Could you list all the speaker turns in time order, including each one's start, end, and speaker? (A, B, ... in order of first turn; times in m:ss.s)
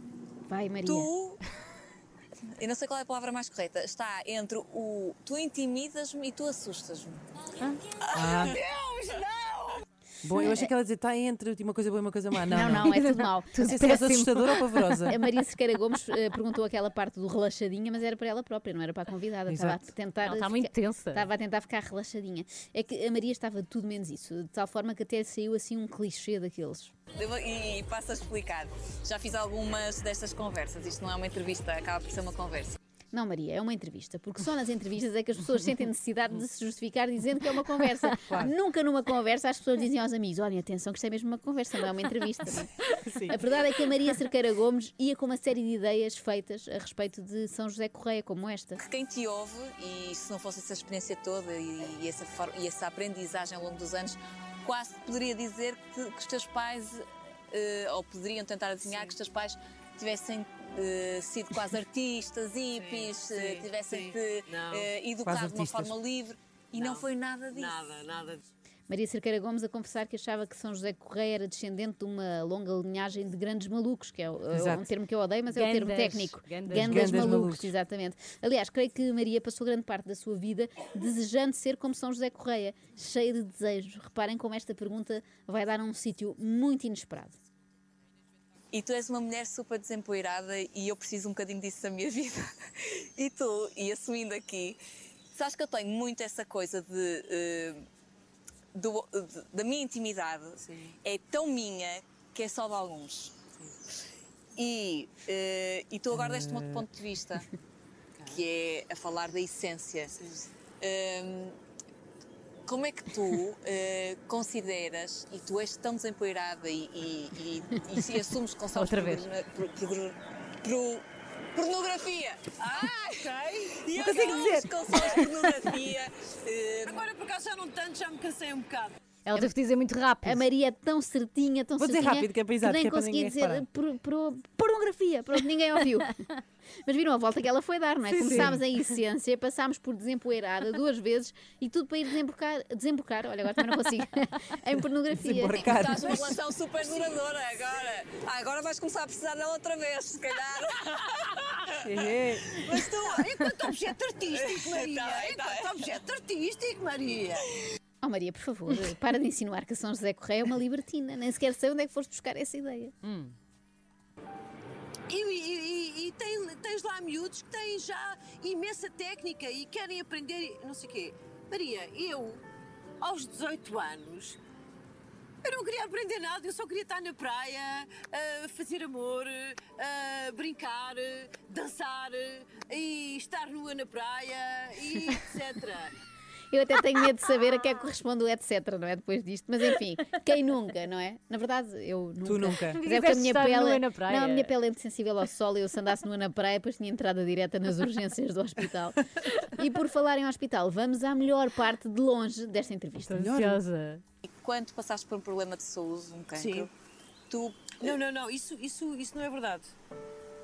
0:00.5-0:01.1 A
0:00.8-0:01.4 B
0:02.6-0:07.2 B
0:08.1-0:08.5 C
0:08.2-0:09.8 D
0:08.2-0:08.6 B
0:10.2-0:13.0 C
0:10.4-0:10.7 A
0:12.5-0:14.0 A
0:12.8-0:15.1 E
0:13.6-0:15.1 C
0:15.1-0:26.9 A
0:19.5-0:19.8 C
0:20.2-0:21.3 E
0:27.1-0:32.8 B
0:33.1-0:48.8 A
0:38.3-0:38.5 C
0:43.0-0:43.4 C
0:48.8-1:07.8 B
0:58.8-0:59.2 D
1:02.7-1:04.9 D
1:05.2-1:05.9 C
1:06.7-1:08.4 D
1:08.9-1:27.4 A
1:14.5-1:14.9 C
1:15.5-1:17.3 E
1:16.7-1:17.7 C
1:28.7-1:32.4 B
1:33.2-1:34.8 B
1:35.3-1:37.8 B
1:38.7-1:43.4 B
1:44.6-1:47.5 B
1:46.1-1:46.7 C
1:48.2-1:50.2 B
1:50.8-1:51.6 B
1:52.7-2:01.0 B
1:58.7-1:59.2 E
2:01.5-2:03.2 B
2:02.6-2:05.3 D
2:03.9-2:04.7 C
2:04.0-2:07.0 B
2:06.8-2:09.0 D
2:09.2-2:10.4 E
2:10.2-2:16.2 A
2:11.8-2:13.6 C
2:16.8-2:25.7 A
2:18.1-2:18.6 E
2:18.2-2:18.6 C
2:25.1-2:26.3 C
2:25.6-2:31.3 B
2:31.8-2:32.6 C
2:32.5-2:32.9 B
2:32.6-2:37.4 D
2:34.3-2:35.9 B
2:38.0-2:42.9 A
2:43.0-2:43.3 E
2:45.1-2:52.4 D
2:53.0-2:54.4 D
2:55.4-3:05.9 D
3:06.5-3:23.3 A
3:12.2-3:12.8 C
3:12.7-3:14.5 E
3:23.0-3:24.0 E
3:23.2-3:23.6 C
3:24.2-3:26.7 B
3:26.3-3:26.7 D
3:27.3-3:27.9 B
3:27.8-3:29.7 D